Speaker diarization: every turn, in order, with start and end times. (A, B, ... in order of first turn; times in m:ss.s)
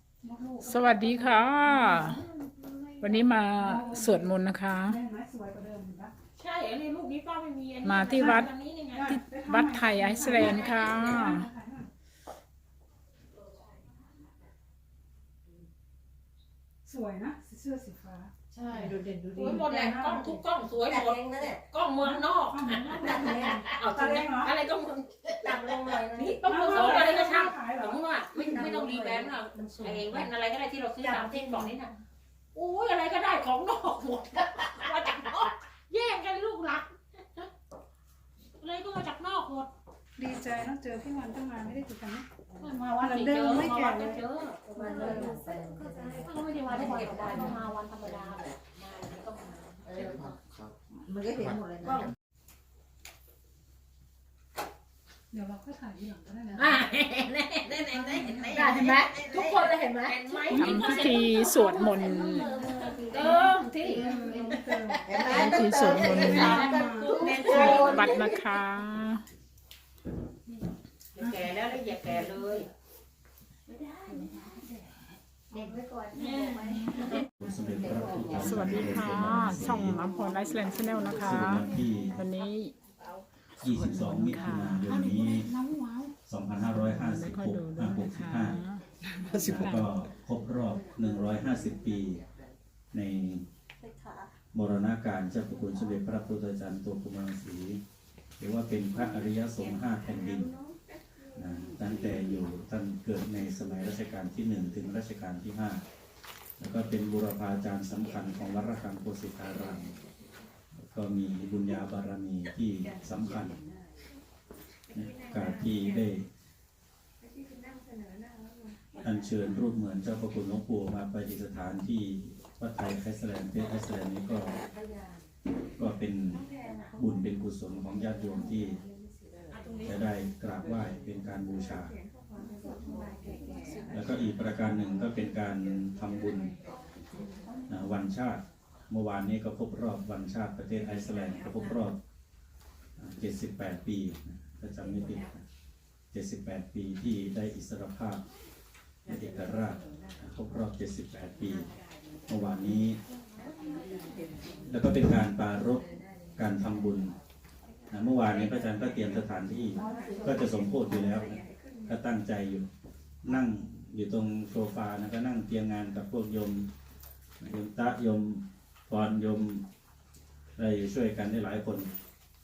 0:00.2-0:01.0 A
0:00.6-0:02.2 B
0:00.8-0:03.2 C
0:03.0-0:05.0 B
0:03.6-0:06.1 A
0:06.4-0:09.1 C
0:07.8-0:08.5 B
0:08.1-0:11.9 A
0:09.1-0:11.5 B
0:10.2-0:11.3 C
0:16.9-0:20.4 A
0:18.5-0:32.0 C
0:20.8-0:21.6 D
0:22.0-0:24.6 A
0:23.0-0:23.6 D
0:25.4-0:27.1 D
0:26.4-0:28.7 A
0:28.4-0:30.2 D
0:31.0-0:31.7 D
0:32.5-0:37.5 C
0:38.6-0:39.7 C
0:40.2-0:42.3 A
0:42.6-0:45.4 C
0:43.0-0:44.2 A
0:44.7-0:47.6 D
0:46.1-0:50.4 C
0:47.2-0:47.6 A
0:49.9-0:50.4 D
0:51.0-0:52.1 D
0:51.8-0:52.1 C
0:55.3-0:56.8 A
0:56.6-1:08.3 C
0:57.9-0:58.7 A
0:58.5-1:00.4 D
1:00.5-1:01.1 A
1:00.5-1:02.6 B
1:01.7-1:08.4 D
1:04.0-1:05.2 A
1:05.2-1:06.7 B
1:06.1-1:07.9 A
1:07.6-1:09.2 B
1:11.2-1:12.7 C
1:11.2-1:12.4 A
1:15.5-1:16.9 D
1:16.1-1:17.2 C
1:17.4-1:20.0 E
1:17.8-1:18.4 D
1:18.4-1:22.8 B
1:21.1-1:22.2 E
1:23.6-1:25.5 E
1:23.6-1:25.7 B
1:24.9-1:26.1 A
1:26.3-1:28.6 E
1:26.6-1:29.9 B
1:29.4-1:32.2 E
1:32.9-1:33.5 E
1:34.5-1:37.8 E
1:38.4-1:40.5 E
1:41.4-1:45.8 E
1:46.6-1:49.9 E
1:50.8-1:53.6 E
1:54.9-1:56.3 E
1:59.0-2:04.6 E
2:05.8-2:08.8 E
2:09.5-2:09.9 C
2:09.8-2:11.9 E
2:13.9-2:16.6 E
2:17.7-2:22.0 E
2:23.0-2:25.4 E
2:26.1-2:28.3 E
2:29.1-2:31.7 E
2:32.3-2:33.0 E
2:34.7-2:35.8 E
2:36.4-2:37.2 E
2:37.9-2:42.7 E
2:43.2-2:46.7 E
2:47.4-2:49.6 E
2:50.6-2:51.9 E